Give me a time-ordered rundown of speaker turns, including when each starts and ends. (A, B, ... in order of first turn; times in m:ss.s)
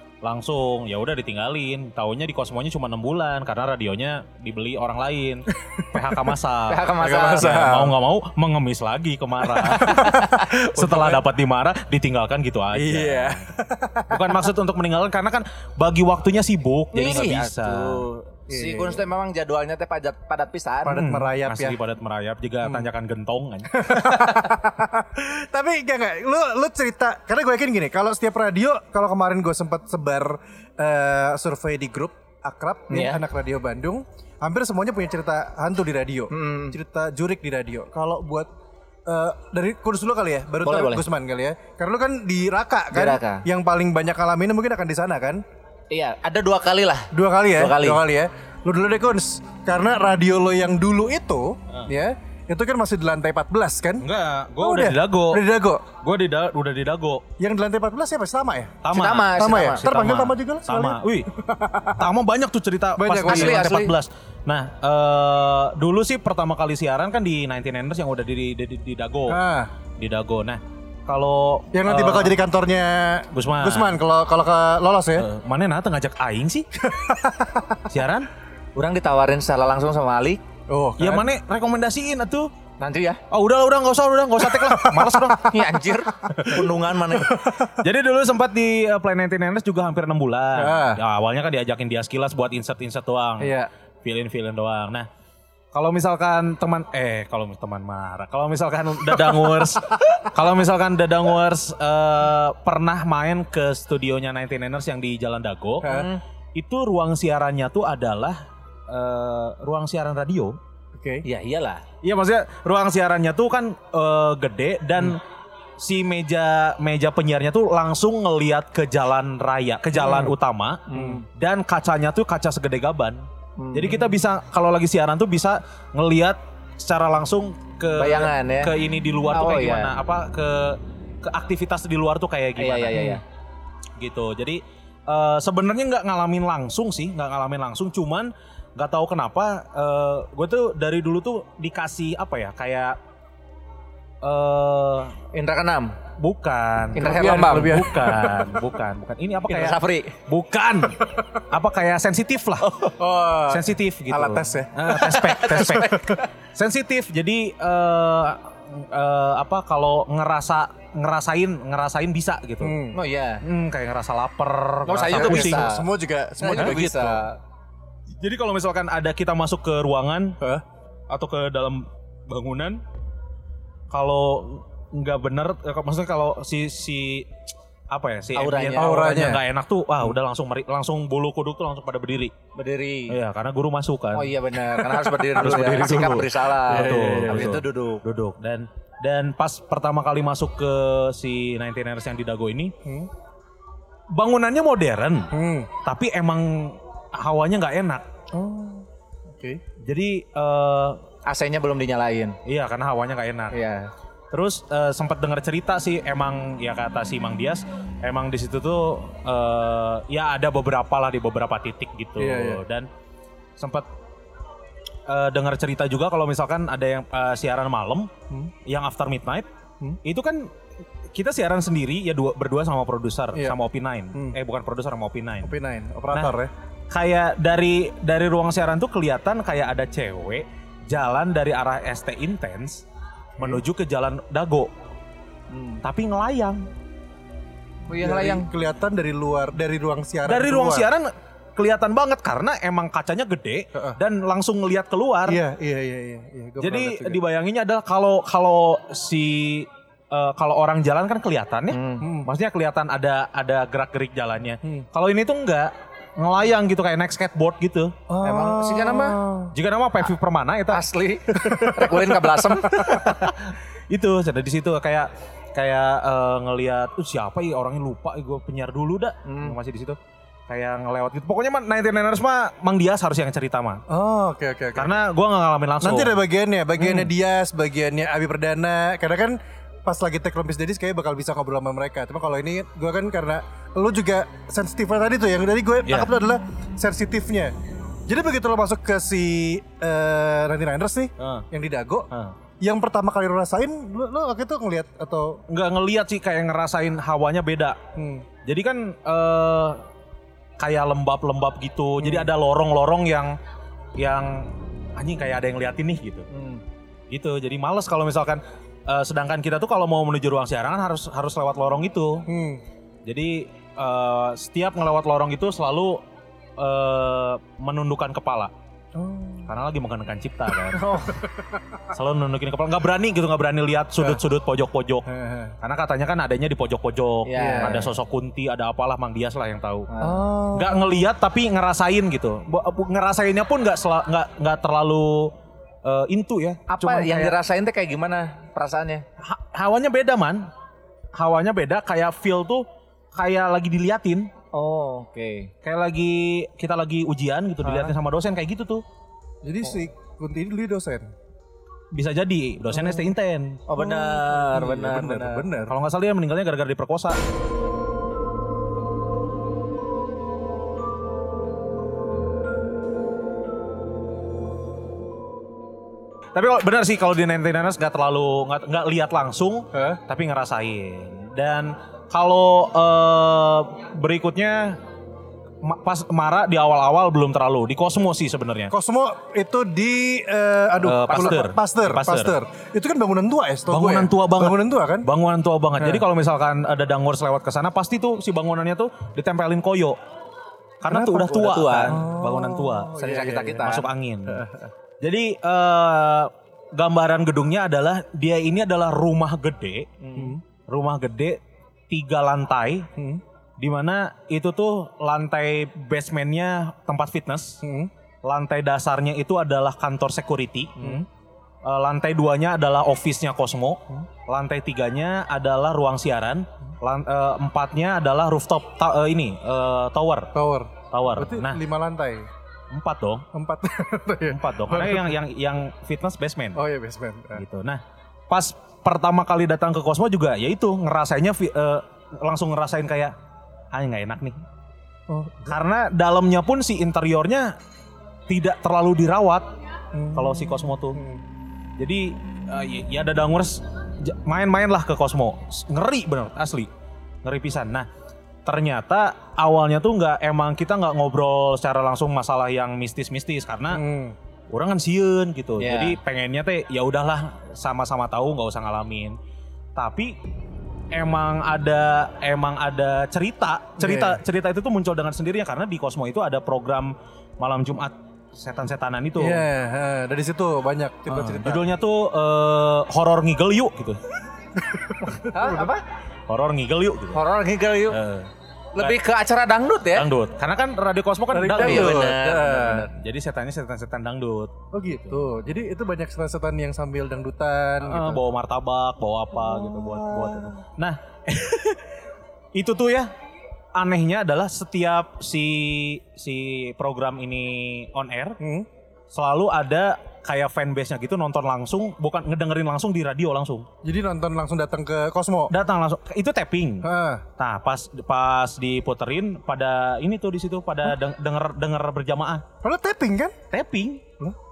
0:00.2-0:13.5 A
0:05.7-0:06.1 B
0:06.7-0:07.8 C
0:07.0-0:07.9 B
0:09.7-0:11.2 B
0:09.9-0:10.5 C
0:12.7-0:14.4 B
0:14.1-0:18.0 A
0:16.9-0:21.0 C
0:18.5-0:19.1 B
0:20.8-0:21.8 B
0:20.9-0:24.1 A
0:23.7-0:38.5 B
0:32.9-0:33.2 C
0:36.3-0:36.8 C
0:39.1-0:45.4 B
0:40.6-0:41.0 C
0:42.9-0:43.4 C
0:45.9-0:48.0 C
0:47.1-0:54.1 B
0:54.0-0:55.4 A
0:54.6-0:55.8 B
0:56.0-0:57.2 A
0:57.4-0:58.8 B
0:58.8-1:01.3 A
0:58.9-0:59.8 C
0:59.3-1:02.1 B
1:02.0-1:09.4 A
1:03.0-1:03.6 B
1:03.2-1:03.9 C
1:09.3-1:09.7 B
1:10.0-1:12.4 A
1:11.7-1:15.2 B
1:13.3-1:14.0 A
1:15.2-1:16.7 A
1:16.8-1:17.9 B
1:17.9-1:18.3 A
1:18.8-1:20.4 C
1:20.7-1:21.3 B
1:21.0-1:22.5 A
1:22.8-1:23.2 C
1:23.3-1:25.6 A
1:24.4-1:25.6 B
1:25.3-1:27.3 C
1:26.2-1:27.8 B
1:27.7-1:35.1 A
1:30.6-1:31.0 B
1:33.4-1:33.7 B
1:35.7-1:46.0 A
1:45.8-1:46.2 C
1:45.8-1:46.1 B
1:46.5-1:50.6 A
1:50.9-1:51.2 B
1:51.2-1:51.8 C
1:52.0-1:55.2 A
1:55.8-2:13.1 A
2:00.0-2:00.3 B
2:00.9-2:01.2 C
2:00.9-2:01.2 B
2:03.6-2:04.0 C
2:08.0-2:08.7 C
2:09.3-2:09.9 C
2:12.6-2:13.2 C
2:14.0-2:23.0 A
2:24.2-2:25.2 A
2:25.3-2:25.9 C
2:26.2-2:32.7 A
2:27.0-2:27.8 C
2:27.0-2:28.5 B
2:29.5-2:30.1 C
2:32.6-2:33.0 C
2:33.0-2:36.1 B
2:33.5-2:42.8 A
2:34.1-2:36.2 C
2:42.6-2:43.0 B
2:42.9-2:43.4 C
2:43.4-2:45.6 A
2:44.9-2:45.9 C
2:45.1-2:47.2 B
2:46.4-2:47.4 C
2:48.2-2:50.4 A
2:51.1-2:52.8 A
2:53.9-2:57.3 A
2:57.9-3:02.3 A
2:58.3-2:58.9 C
2:58.7-2:59.4 B
3:02.5-3:03.1 C
3:03.1-3:04.3 A
3:04.1-3:08.0 C
3:04.8-3:06.1 B
3:05.3-3:12.7 A
3:06.7-3:07.6 B
3:12.8-3:13.1 B
3:14.1-3:15.3 A
3:15.3-3:15.7 B
3:15.8-3:18.0 A
3:18.3-3:19.6 B
3:19.8-3:21.0 A
3:21.2-3:22.4 C
3:22.4-3:23.6 A
3:23.5-3:23.9 C
3:24.3-3:32.9 A
3:32.2-3:32.6 B
3:33.6-3:33.9 A
3:35.1-3:38.1 A
3:38.6-3:39.5 A
3:40.0-3:40.5 A
3:41.1-3:45.5 A
3:45.4-3:46.5 B
3:46.9-3:52.8 A
3:53.4-3:54.7 A
3:55.5-3:55.8 C
3:55.8-3:56.6 A
3:57.9-3:58.5 C
3:57.9-4:00.9 B
4:00.2-4:05.4 A
4:05.2-4:07.2 B
4:06.6-4:18.0 A
4:11.7-4:12.1 C
4:12.0-4:12.3 B
4:18.1-4:19.5 B
4:18.2-4:19.2 C
4:19.5-4:20.8 A
4:20.7-4:23.3 C
4:21.3-4:23.0 B
4:22.7-4:33.8 A
4:29.2-4:29.6 C
4:33.9-4:35.0 B
4:34.7-4:36.2 A
4:35.8-4:47.5 B
4:36.8-4:37.1 A
4:48.1-4:52.1 B
4:51.2-4:51.5 A
4:52.6-4:55.4 B
4:55.5-4:57.8 A
4:58.0-4:58.3 B
4:58.4-4:59.8 A
5:00.6-5:03.4 A
5:02.0-5:02.3 B
5:04.0-5:06.3 A
5:06.3-5:06.6 C
5:07.1-5:12.3 A
5:12.3-5:12.6 B
5:13.0-5:16.0 A
5:16.6-5:18.5 A
5:18.9-5:19.5 B
5:19.5-5:21.2 A
5:20.6-5:21.9 B
5:21.9-5:25.1 A
5:25.1-5:25.5 B
5:25.6-5:29.9 A
5:27.2-5:27.9 C
5:27.4-5:27.8 B
5:29.9-5:30.2 C
5:30.0-5:30.9 B
5:30.5-5:37.4 A
5:36.7-5:39.0 C
5:39.2-5:40.5 A
5:41.1-5:44.3 A
5:44.5-5:45.5 C
5:45.6-5:48.8 A
5:47.6-5:47.9 B
5:49.4-5:51.1 B
5:51.9-5:53.6 A
5:52.7-5:53.1 B
5:53.7-5:55.4 C
5:53.8-5:55.7 B
5:55.7-5:57.2 A
6:06.3-6:14.8 A
6:09.7-6:10.0 B
6:15.6-6:18.7 A
6:18.7-6:25.1 B
6:20.8-6:22.3 A
6:21.1-6:21.4 C
6:23.7-6:30.0 A
6:25.8-6:26.0 B
6:30.8-6:32.9 A
6:30.9-6:31.2 B
6:31.1-6:32.0 C
6:31.9-6:34.7 B
6:33.0-6:33.9 C
6:33.6-6:34.4 A
6:35.0-6:39.9 A
6:40.0-6:40.4 C
6:40.1-6:40.4 B
6:40.7-6:42.9 A
6:43.0-6:43.2 B
6:43.6-6:47.6 A
6:47.6-6:47.9 B
6:48.2-6:51.0 A
6:50.8-6:51.0 B
6:51.6-7:00.3 A
7:00.3-7:02.3 B
7:00.9-7:01.6 A
7:02.7-7:03.3 A
7:03.3-7:05.2 B
7:04.2-7:06.6 A
7:06.5-7:07.4 B
7:07.3-7:13.1 A
7:13.7-7:14.4 A
7:15.1-7:15.6 B
7:15.4-7:17.6 A
7:18.3-7:19.5 A
7:19.9-7:21.2 B
7:20.1-7:21.0 A
7:21.8-7:26.7 A
7:27.2-7:27.9 A
7:28.4-7:33.8 A
7:33.7-7:34.2 B
7:34.5-7:39.2 A
7:35.6-7:36.0 C
7:39.8-7:40.2 A
7:40.9-7:49.4 A
7:43.8-7:44.2 B
7:49.2-7:51.6 B
7:51.1-7:54.0 A
7:54.6-7:55.7 B
7:55.3-7:55.8 C
7:56.3-7:57.2 A
7:57.1-7:58.0 C
7:57.9-7:59.0 A
7:58.7-8:00.1 C
7:59.9-8:02.0 A
8:01.3-8:02.9 B
8:01.6-8:02.9 C
8:02.9-8:05.2 A
8:04.7-8:08.2 B
8:07.8-8:12.0 A
8:09.4-8:10.6 B
8:12.5-8:13.1 A
8:13.7-8:18.4 A
8:18.4-8:18.7 B
8:19.1-8:23.7 A
8:23.8-8:25.5 B
8:25.5-8:32.4 A
8:26.8-8:27.2 B
8:32.6-8:33.3 B
8:33.5-8:34.0 A